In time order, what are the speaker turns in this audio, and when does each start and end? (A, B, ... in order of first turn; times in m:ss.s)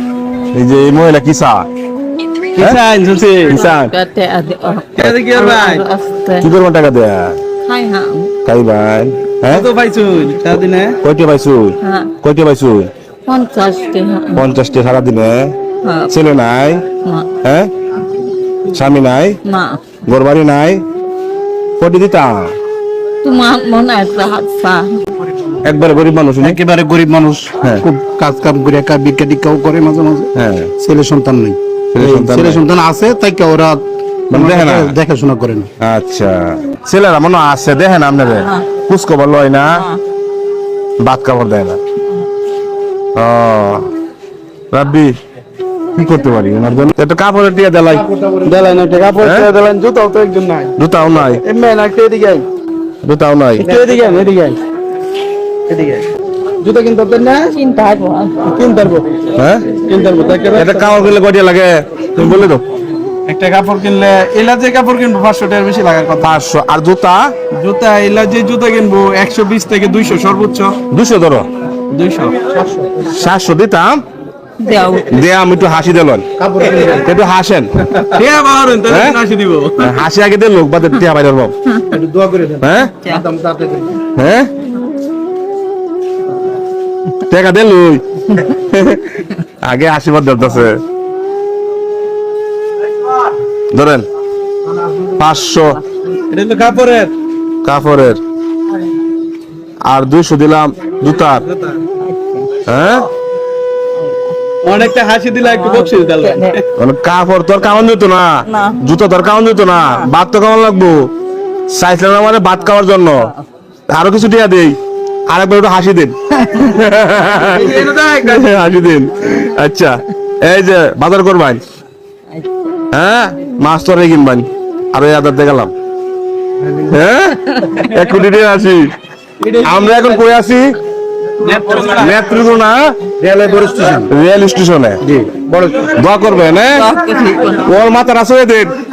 0:00.5-0:01.7 A
0:02.5-0:03.6 B
0:03.5-0:06.5 C
0:03.5-0:03.9 A
0:05.0-0:05.8 B
0:06.4-0:07.4 A
0:07.6-0:08.3 C
0:08.4-0:09.6 A
0:09.5-0:11.0 B
0:11.0-0:12.9 A
0:11.8-0:12.1 C
0:13.3-0:14.4 C
0:14.3-0:15.5 A
0:15.8-0:16.1 C
0:16.1-0:16.8 A
0:17.0-0:17.3 C
0:17.4-0:17.7 A
0:18.7-0:19.4 A
0:19.4-0:19.8 C
0:20.1-0:20.8 A
0:21.8-0:22.5 A
0:23.2-0:25.0 C
0:25.6-0:26.6 A
0:26.4-0:35.7 D
0:30.3-0:30.7 A
0:31.9-0:32.6 A
0:34.3-0:35.0 A
0:35.8-0:39.8 A
0:38.3-0:38.7 C
0:39.7-0:40.0 C
0:41.0-0:41.8 A
0:43.1-0:43.9 A
0:44.7-0:45.1 A
0:46.0-0:48.0 A
0:48.0-0:49.0 D
0:48.4-0:52.4 B
0:49.2-0:49.5 A
0:50.8-0:51.4 A
0:53.0-0:53.7 A
0:53.6-0:54.6 B
0:55.7-0:56.0 B
0:56.6-0:57.5 B
0:57.5-0:58.5 C
0:58.4-1:01.2 B
0:59.4-0:59.6 A
1:00.5-1:02.6 A
1:02.2-1:02.4 B
1:03.3-1:06.3 B
1:06.2-1:07.3 A
1:07.5-1:10.8 B
1:10.9-1:11.5 A
1:11.9-1:12.4 B
1:12.6-1:13.0 D
1:13.0-1:14.0 A
1:14.6-1:15.1 C
1:15.1-1:16.2 A
1:16.4-1:17.1 D
1:17.0-1:17.7 A
1:18.0-1:20.0 B
1:18.9-1:19.2 A
1:19.8-1:21.5 A
1:21.9-1:24.0 D
1:22.6-1:23.0 A
1:24.1-1:24.5 A
1:27.3-1:30.8 A
1:33.7-1:34.0 A
1:35.2-1:35.8 A
1:36.3-1:37.1 B
1:37.6-1:38.2 A
1:39.8-1:41.4 A
1:41.4-1:41.8 B
1:42.0-1:42.5 C
1:42.6-1:43.0 A
1:44.0-1:44.4 C
1:44.6-1:46.6 B
1:45.4-1:46.6 C
1:46.8-1:51.1 A
1:48.4-1:48.8 C
1:51.7-1:53.3 A
1:53.9-1:54.8 A
1:55.3-2:01.6 A
1:56.4-1:56.7 C
1:57.2-1:58.4 B
2:02.3-2:02.8 C
2:02.9-2:05.7 A
2:06.9-2:08.9 A
2:07.4-2:07.8 C
2:09.4-2:10.2 B
2:09.6-2:10.7 A
2:11.4-2:12.2 B
2:11.9-2:12.9 A
2:13.2-2:14.1 D
2:14.1-2:15.0 A
2:15.0-2:15.9 D
2:15.9-2:16.8 A
2:16.7-2:17.6 C
2:17.6-2:18.7 A